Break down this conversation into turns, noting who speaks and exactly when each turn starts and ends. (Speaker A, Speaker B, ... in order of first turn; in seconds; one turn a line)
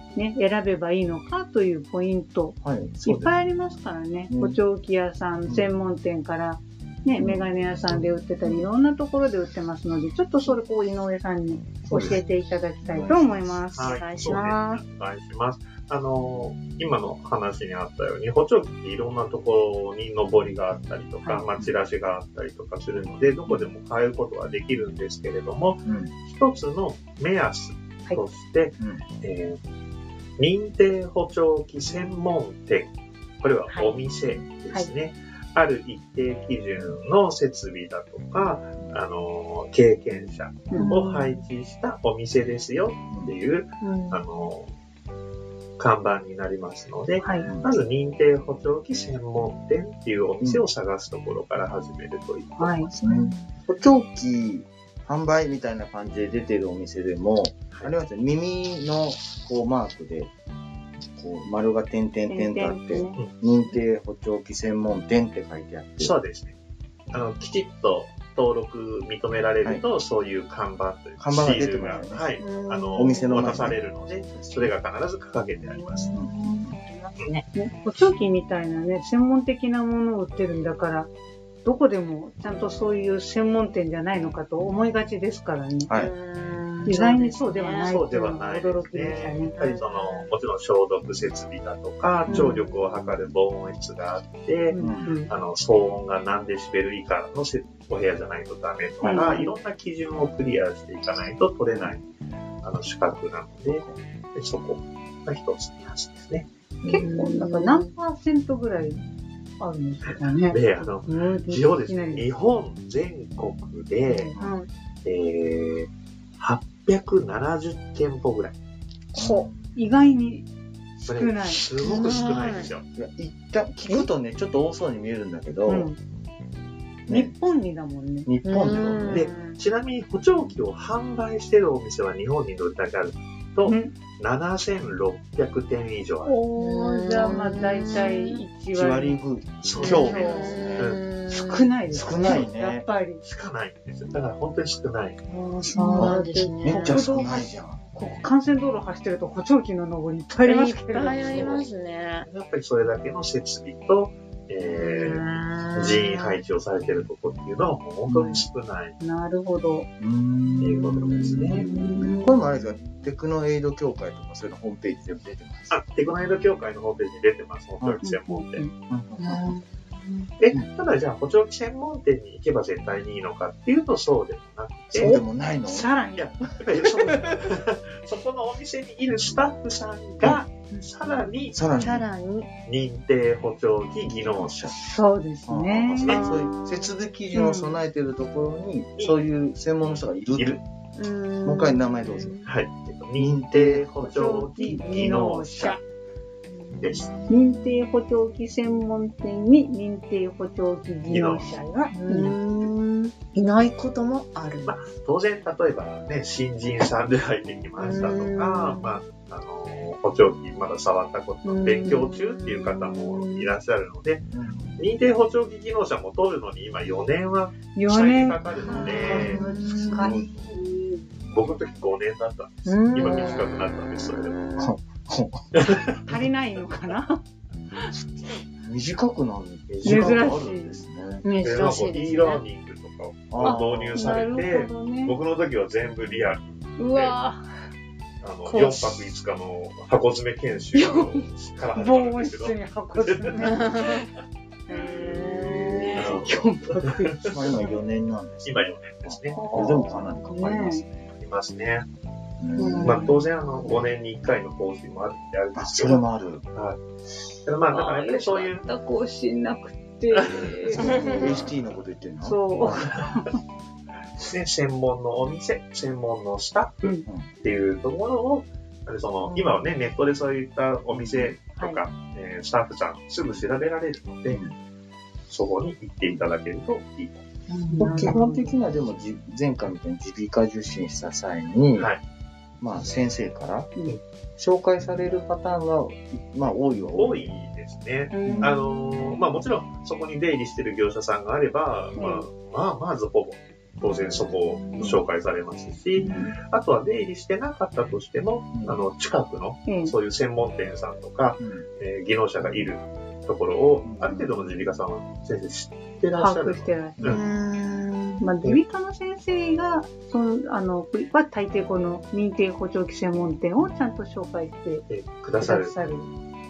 Speaker A: 0.1-14.0
Speaker B: 2.6-3.4
Speaker B: 4.3-4.6
Speaker B: 7.1-8.7
Speaker B: 11.9-12.2
Speaker B: 12.8-13.7
Speaker C: 13.7-29.6
Speaker D: 13.8-14.8
Speaker B: 25.9-26.1
Speaker C: 30.4-44.7
Speaker A: 33.7-33.9
Speaker D: 40.8-41.4
Speaker D: 43.8-44.2
Speaker C: 45.8-52.9
Speaker A: 47.2-47.5
Speaker B: 47.4-47.7
Speaker A: 52.6-52.9
Speaker B: 52.9-60.3
Speaker D: 53.1-53.4
Speaker C: 57.7-58.0
Speaker B: 61.1-66.2
Speaker A: 62.3-63.2
Speaker C: 66.0-66.6
Speaker C: 67.1-76.1
Speaker B: 71.2-72.3
Speaker D: 72.4-73.7
Speaker B: 73.0-74.7
Speaker D: 75.8-77.5
Speaker B: 76.1-76.8
Speaker A: 77.5-81.1
Speaker A: 81.6-85.9
Speaker B: 85.9-86.1
Speaker D: 85.9-87.9
Speaker A: 86.8-89.5
Speaker C: 87.8-102.1
Speaker D: 89.5-90.3
Speaker A: 92.3-92.6
Speaker D: 92.3-92.8
Speaker A: 94.7-95.3
Speaker B: 94.8-95.1
Speaker B: 99.0-99.3
Speaker A: 99.0-99.5
Speaker C: 102.6-106.5
Speaker B: 103.7-104.0
Speaker B: 106.8-107.1
Speaker A: 106.9-109.0
Speaker D: 107.0-107.9
Speaker A: 109.6-112.3
Speaker C: 110.1-114.3
Speaker A: 114.1-114.3
Speaker D: 114.4-114.7
Speaker C: 115.0-118.6
Speaker B: 119.2-119.6
Speaker A: 119.2-120.5
Speaker A: 121.0-121.7
Speaker C: 121.1-122.8
Speaker D: 121.8-122.7
Speaker B: 123.0-125.9
Speaker A: 125.7-126.0
Speaker B: 127.1-127.4
Speaker A: 127.1-128.3
Speaker B: 128.3-129.3
Speaker D: 128.4-129.6
Speaker C: 129.0-136.4
Speaker A: 133.6-133.9
Speaker A: 136.2-139.2
Speaker D: 136.6-138.5
Speaker B: 138.7-140.9
Speaker C: 139.6-141.0
Speaker A: 139.8-140.7
Speaker D: 139.8-141.7
Speaker A: 141.3-143.2
Speaker B: 141.9-142.9
Speaker C: 143.2-145.2
Speaker D: 145.3-147.1
Speaker A: 145.8-151.2
Speaker B: 146.0-147.8
Speaker D: 150.4-152.3
Speaker C: 151.1-151.7
Speaker C: 152.2-159.0
Speaker D: 154.8-156.4
Speaker B: 158.1-158.5
Speaker A: 159.0-159.9
Speaker B: 160.0-165.8
Speaker C: 160.6-161.6
Speaker A: 161.4-162.4
Speaker D: 162.1-162.4
Speaker C: 165.7-168.7
Speaker A: 168.0-168.7
Speaker B: 168.9-169.5
Speaker D: 169.2-170.3
Speaker C: 170.4-175.2
Speaker B: 174.9-176.0
Speaker A: 175.0-176.3
Speaker C: 176.2-181.6
Speaker B: 176.7-177.1
Speaker B: 181.5-182.1
Speaker D: 181.8-182.5
Speaker C: 182.7-184.5
Speaker B: 184.2-184.9
Speaker A: 184.8-186.4
Speaker B: 185.5-190.6
Speaker C: 186.0-186.3
Speaker D: 186.1-186.9
Speaker A: 187.3-187.8
Speaker C: 189.0-189.2
Speaker C: 190.3-190.6
Speaker D: 191.0-192.5
Speaker B: 191.4-192.4
Speaker C: 192.4-195.8
Speaker B: 193.2-193.9
Speaker A: 194.0-195.8
Speaker D: 196.5-197.8
Speaker C: 196.8-197.1
Speaker A: 197.3-202.3
Speaker C: 201.1-201.6
Speaker D: 201.9-204.7
Speaker C: 204.7-219.5
Speaker D: 207.8-209.0
Speaker D: 211.5-213.5
Speaker B: 214.3-214.8
Speaker A: 217.8-220.3
Speaker D: 218.7-221.0
Speaker B: 219.1-220.3
Speaker C: 221.3-224.5
Speaker D: 222.7-223.6
Speaker B: 224.6-226.2
Speaker C: 225.6-225.9
Speaker A: 226.1-227.2
Speaker B: 228.0-231.3
Speaker C: 229.7-230.5
Speaker A: 229.8-230.8
Speaker D: 231.2-232.4
Speaker C: 231.4-237.2
Speaker B: 233.3-234.2
Speaker A: 233.4-235.2
Speaker A: 236.8-237.4
Speaker C: 238.2-243.7
Speaker D: 238.5-239.0
Speaker A: 240.7-243.8
Speaker D: 243.4-244.1
Speaker A: 244.7-247.7
Speaker D: 244.7-246.2
Speaker C: 245.9-247.3
Speaker B: 247.3-251.1
Speaker C: 248.4-249.4
Speaker A: 249.3-250.8
Speaker C: 251.2-251.9
Speaker B: 252.4-253.1
Speaker D: 252.6-253.2
Speaker A: 252.6-253.1
Speaker C: 252.8-256.8
Speaker B: 255.6-256.4
Speaker C: 257.4-258.7
Speaker A: 257.7-261.5
Speaker C: 260.1-260.9
Speaker B: 260.7-262.9
Speaker A: 262.2-263.4
Speaker C: 262.6-263.2
Speaker C: 264.3-274.4
Speaker B: 270.9-271.4
Speaker A: 271.6-271.8
Speaker B: 274.3-274.5
Speaker C: 275.3-277.2
Speaker D: 277.5-278.2
Speaker A: 277.7-278.6
Speaker B: 277.8-281.9
Speaker C: 281.8-282.0
Speaker B: 282.6-283.8
Speaker B: 284.4-287.3
Speaker C: 286.9-307.2
Speaker D: 288.1-289.1
Speaker B: 288.2-288.6
Speaker A: 291.9-292.3
Speaker D: 294.5-294.9
Speaker B: 296.0-296.3
Speaker B: 298.6-298.8
Speaker A: 299.7-299.9
Speaker B: 301.4-301.6
Speaker B: 303.8-304.3
Speaker A: 306.2-307.0
Speaker D: 307.1-308.2
Speaker A: 308.2-314.9
Speaker C: 314.9-315.7
Speaker A: 315.4-316.1